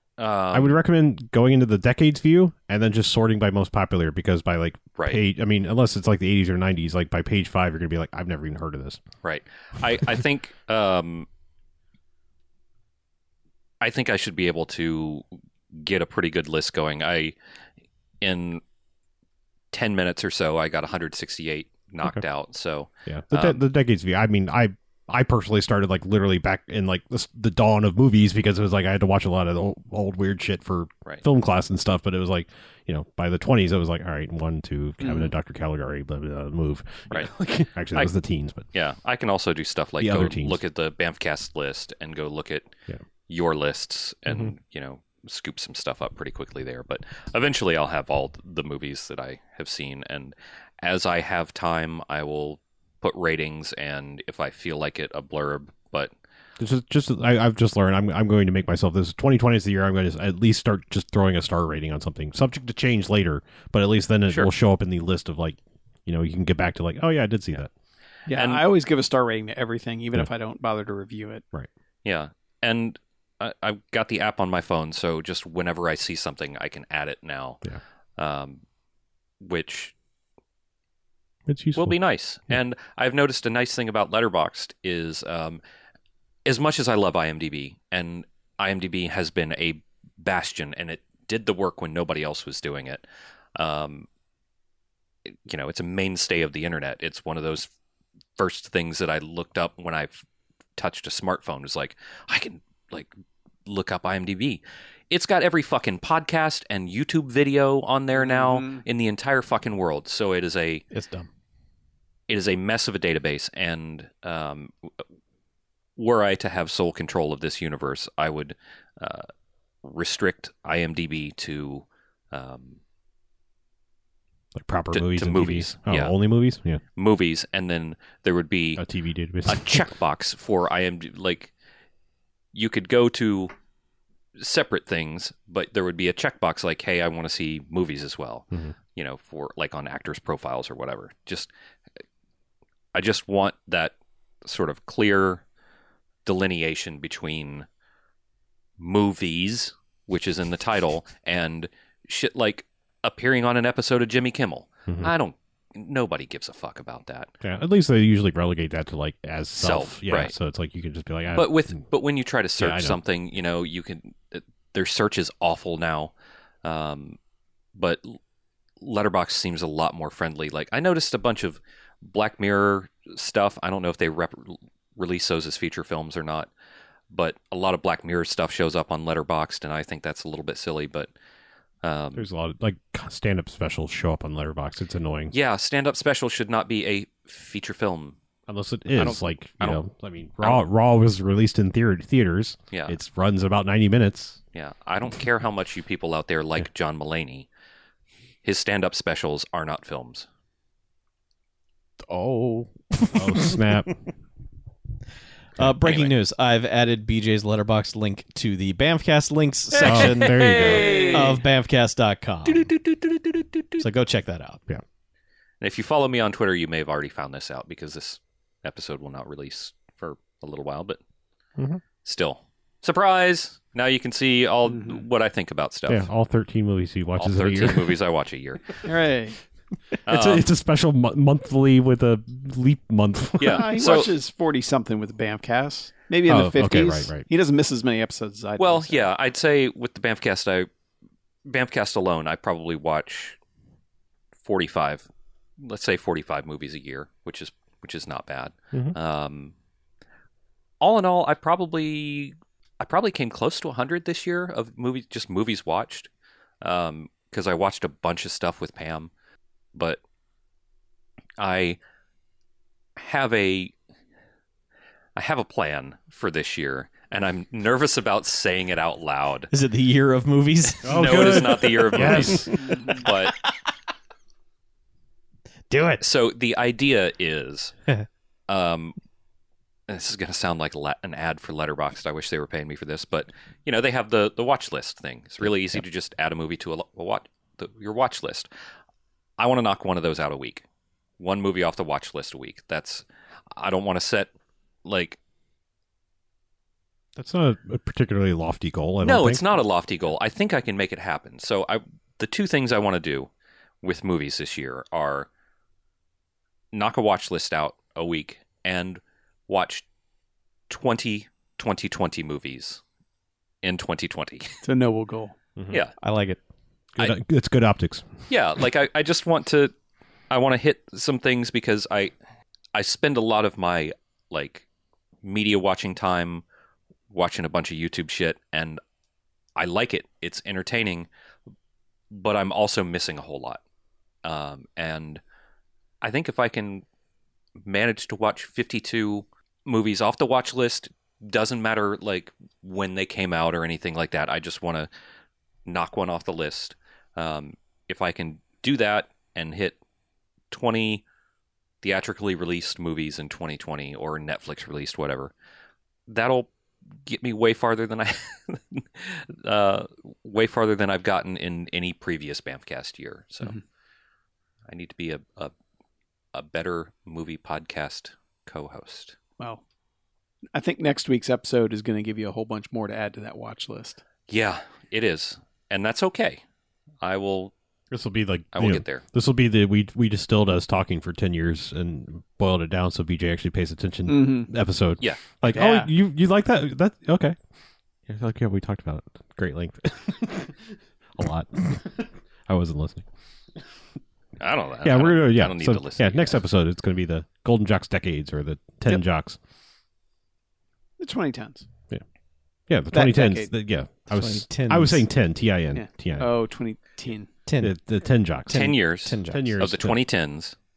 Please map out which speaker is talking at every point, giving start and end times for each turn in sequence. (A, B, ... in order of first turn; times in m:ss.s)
0:00.2-0:00.8 A
0:00.5-0:09.0 B
0:09.2-0:11.3 A
0:13.8-0:17.3 A
0:18.2-0:18.6 A
0:19.7-0:23.6 A
0:23.0-0:38.6 B
0:35.0-0:35.3 C
0:38.7-0:42.7 A
0:40.0-0:40.6 B
0:43.3-0:56.1 A
0:56.6-1:07.7 B
1:08.3-1:11.4 C
1:08.3-1:08.6 A
1:12.0-1:17.6 A
1:18.2-1:18.6 A
1:19.4-1:19.9 A
1:21.5-1:22.0 B
1:21.7-1:25.6 A
1:26.4-1:33.0 A
1:33.6-1:34.1 A
1:35.3-1:37.7 A
1:38.4-1:40.2 A
1:40.8-1:43.1 A
1:43.6-1:50.8 A
1:48.1-1:48.8 C
1:50.9-1:51.3 D
1:52.3-1:54.7 A
1:56.0-1:59.3 A
1:59.8-2:02.8 A
2:04.5-2:06.8 B
2:04.9-2:06.1 A
2:07.0-2:08.8 A
2:08.8-2:09.9 B
2:09.4-2:11.5 A
2:12.5-2:13.5 A
2:14.4-2:21.5 A
2:22.9-2:25.4 A
2:26.2-2:27.6 A
2:28.8-2:37.3 A
2:37.4-2:41.6 B
2:39.6-2:40.3 A
2:41.3-2:46.1 A
2:42.6-2:43.0 B
2:46.6-2:47.2 A
2:47.7-2:48.2 A
2:48.8-2:56.5 A
2:57.1-3:01.1 A
3:01.8-3:02.3 A
3:02.1-3:05.3 B
3:05.3-3:08.2 A
3:08.5-3:14.4 B
3:08.9-3:09.8 A
3:14.5-3:17.5 A
3:18.4-3:20.3 A
3:22.0-3:23.9 D
3:23.1-3:23.9 B
3:25.6-3:32.7 D
3:25.8-3:26.2 A
3:29.7-3:31.4 A
3:29.8-3:31.1 B
3:30.9-3:31.2 C
3:32.4-3:33.8 A
3:33.8-3:34.6 D
3:35.6-3:41.0 A
3:41.6-3:41.8 B
3:42.0-3:46.1 A
3:44.7-3:45.0 C
3:45.9-3:48.0 B
3:47.2-3:48.9 A
3:48.8-3:49.4 C
3:50.0-3:50.5 A
3:50.0-3:53.7 B
3:53.4-3:54.1 A
3:53.4-3:59.1 C
3:56.3-3:57.2 B
3:58.6-4:00.7 A
4:01.4-4:03.4 A
4:04.4-4:05.1 A
4:05.6-4:09.5 A
4:10.8-4:16.1 A
4:16.6-4:19.1 A
4:19.7-4:20.0 A
4:21.4-4:21.8 A
4:23.0-4:23.7 A
4:25.2-4:29.5 A
4:29.5-4:32.5 D
4:30.7-4:33.4 A
4:30.8-4:32.8 B
4:32.5-4:33.0 C
4:33.0-4:33.5 D
4:35.7-4:36.0 D
4:36.0-4:37.7 A
4:38.5-4:39.0 A
4:39.9-4:48.5 A
4:49.4-4:50.6 A
4:51.2-4:54.3 A
4:54.8-4:55.2 A
4:57.2-4:59.6 B
4:59.0-5:03.3 A
5:03.8-5:05.3 A
5:06.7-5:09.8 A
5:10.7-5:12.8 A
5:13.6-5:14.6 A
5:14.6-5:15.4 C
5:15.6-5:15.8 B
5:16.0-5:16.4 D
5:17.0-5:18.1 B
5:18.3-5:19.7 A
5:20.3-5:22.1 A
5:22.7-5:24.6 A
5:25.2-5:26.4 A
5:27.1-5:28.8 A
5:29.6-5:31.1 A
5:32.1-5:33.6 A
5:34.2-5:35.2 A
5:36.0-5:36.8 A
5:37.6-5:44.9 A
5:45.6-5:49.8 A
5:50.5-5:51.0 A
5:51.8-5:55.3 A
5:56.1-5:56.5 A
5:57.0-6:03.6 A
6:04.7-6:05.5 A
6:06.3-6:09.2 A
6:10.5-6:14.0 C
6:14.3-6:16.4 A
6:17.0-6:17.5 A
6:17.9-6:27.4 B
6:18.5-6:19.0 A
6:24.1-6:24.5 C
6:25.4-6:25.9 C
6:28.1-6:33.0 B
6:34.4-6:36.4 A
6:34.8-6:39.4 B
6:41.0-6:41.7 C
6:42.7-6:46.3 B
6:42.9-6:43.5 C
6:44.1-6:45.0 D
6:45.7-6:47.3 C
6:47.4-6:47.7 D
6:47.6-6:48.7 B
6:48.5-6:49.5 D
6:48.5-6:50.5 A
6:49.3-6:50.0 B